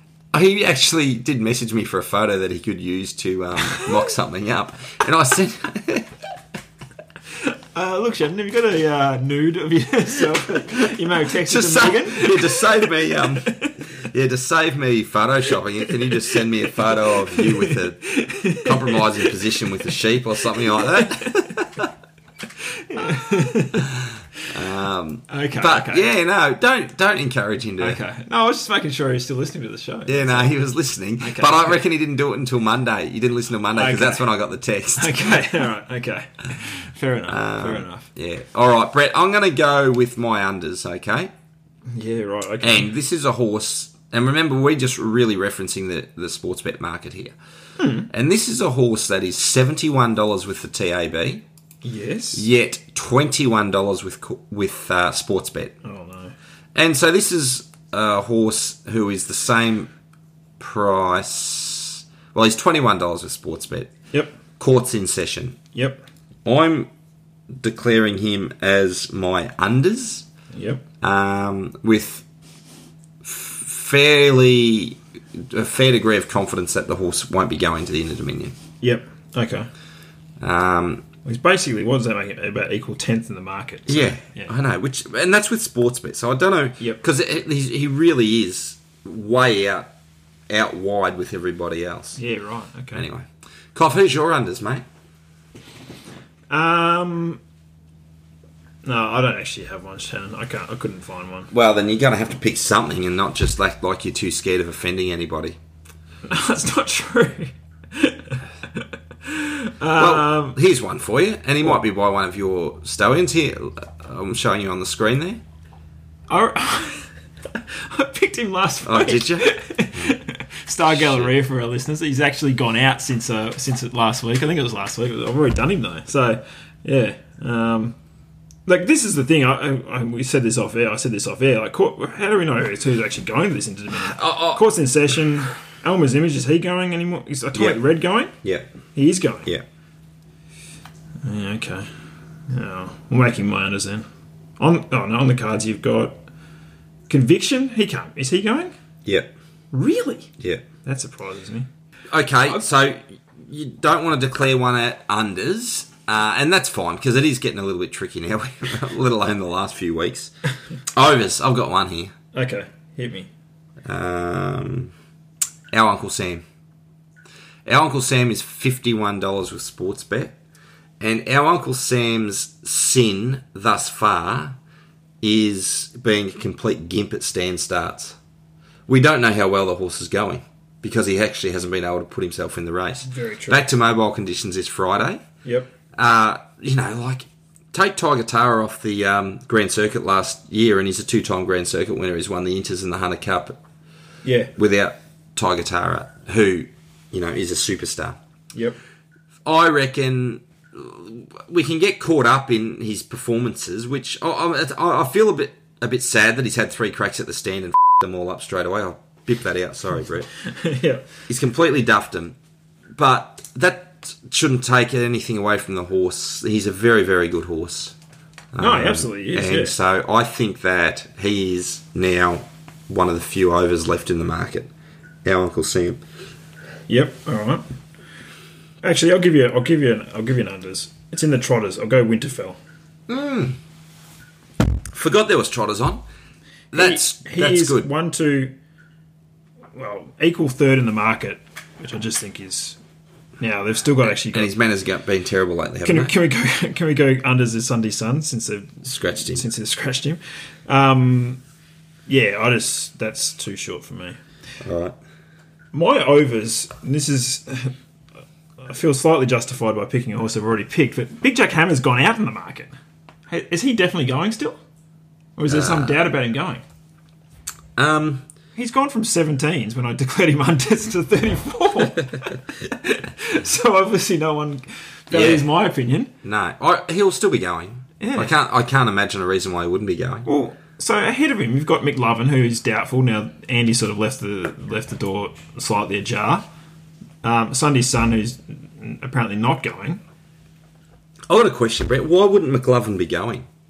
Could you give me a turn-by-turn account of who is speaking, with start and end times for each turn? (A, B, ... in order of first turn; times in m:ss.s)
0:00.3-0:06.1 A
0:07.4-0:13.7 B
0:11.3-0:21.9 A
0:16.3-0:19.3 B
0:20.7-0:21.6 B
0:22.9-0:23.9 B
0:24.5-0:28.0 A
0:25.3-0:26.1 B
0:27.8-0:30.6 B
0:30.1-0:35.5 A
0:31.2-0:31.8 B
0:33.7-0:34.3 B
0:35.0-0:38.1 B
0:37.3-0:41.3 A
0:41.9-0:42.9 B
0:42.6-0:47.3 A
0:47.8-0:48.1 B
0:48.1-0:51.4 A
0:51.8-0:52.4 B
0:52.3-0:55.8 A
0:55.8-0:56.3 B
0:56.7-0:59.9 A
1:00.6-1:03.9 A
1:04.6-1:05.6 A
1:05.7-1:06.0 B
1:06.4-1:06.9 A
1:07.5-1:10.3 A
1:10.5-1:10.8 B
1:11.0-1:12.2 A
1:13.2-1:18.5 A
1:18.8-1:19.7 B
1:20.4-1:21.0 A
1:21.2-1:24.5 B
1:23.9-1:29.9 A
1:30.5-1:32.2 A
1:32.2-1:33.0 B
1:32.9-1:34.8 A
1:36.5-1:37.4 B
1:38.8-1:41.5 B
1:41.5-1:45.6 A
1:46.2-1:50.6 B
1:49.9-1:55.4 A
1:56.3-2:08.0 B
1:58.8-2:00.1 A
2:00.9-2:01.3 A
2:08.6-2:18.3 B
2:13.9-2:14.6 A
2:17.5-2:17.8 A
2:18.9-2:19.5 B
2:21.2-2:21.9 B
2:22.5-2:24.0 B
2:24.6-2:26.2 B
2:27.1-2:28.7 B
2:29.0-2:29.3 A
2:29.7-2:30.3 B
2:30.4-2:30.6 A
2:30.8-2:31.7 B
2:32.1-2:40.3 A
2:40.9-2:42.1 A
2:42.3-2:43.3 B
2:43.8-2:44.9 A
2:45.7-2:46.4 A
2:47.6-2:50.3 A
2:51.0-2:54.6 A
2:55.2-2:58.2 A
2:58.9-3:05.2 A
3:03.0-3:03.6 B
3:06.0-3:13.6 A
3:14.2-3:14.5 B
3:14.6-3:18.2 A
3:19.4-3:30.3 A
3:30.4-3:31.0 B
3:31.3-3:32.4 A
3:33.0-3:37.9 A
3:38.5-3:44.7 A
3:38.6-3:39.7 B
3:45.2-3:46.0 A
3:46.9-3:47.6 B
3:48.8-3:52.6 B
3:53.1-3:53.6 A
3:54.9-3:56.0 A
3:56.7-3:57.9 A
3:56.7-3:58.5 B
3:59.7-4:02.8 B
4:03.4-4:04.5 B
4:04.3-4:06.1 A
4:05.8-4:11.4 B
4:08.8-4:09.4 A
4:12.1-4:14.2 B
4:14.6-4:15.0 A
4:15.7-4:17.7 B
4:18.6-4:22.7 B
4:23.3-4:24.6 B
4:25.4-4:26.6 B
4:25.5-4:26.0 A
4:27.8-4:28.2 A
4:28.6-4:36.1 B
4:35.1-4:35.5 A
4:36.2-4:40.3 A
4:38.0-4:38.3 B
4:40.2-4:46.4 B
4:47.2-4:50.0 B
4:51.3-4:53.4 A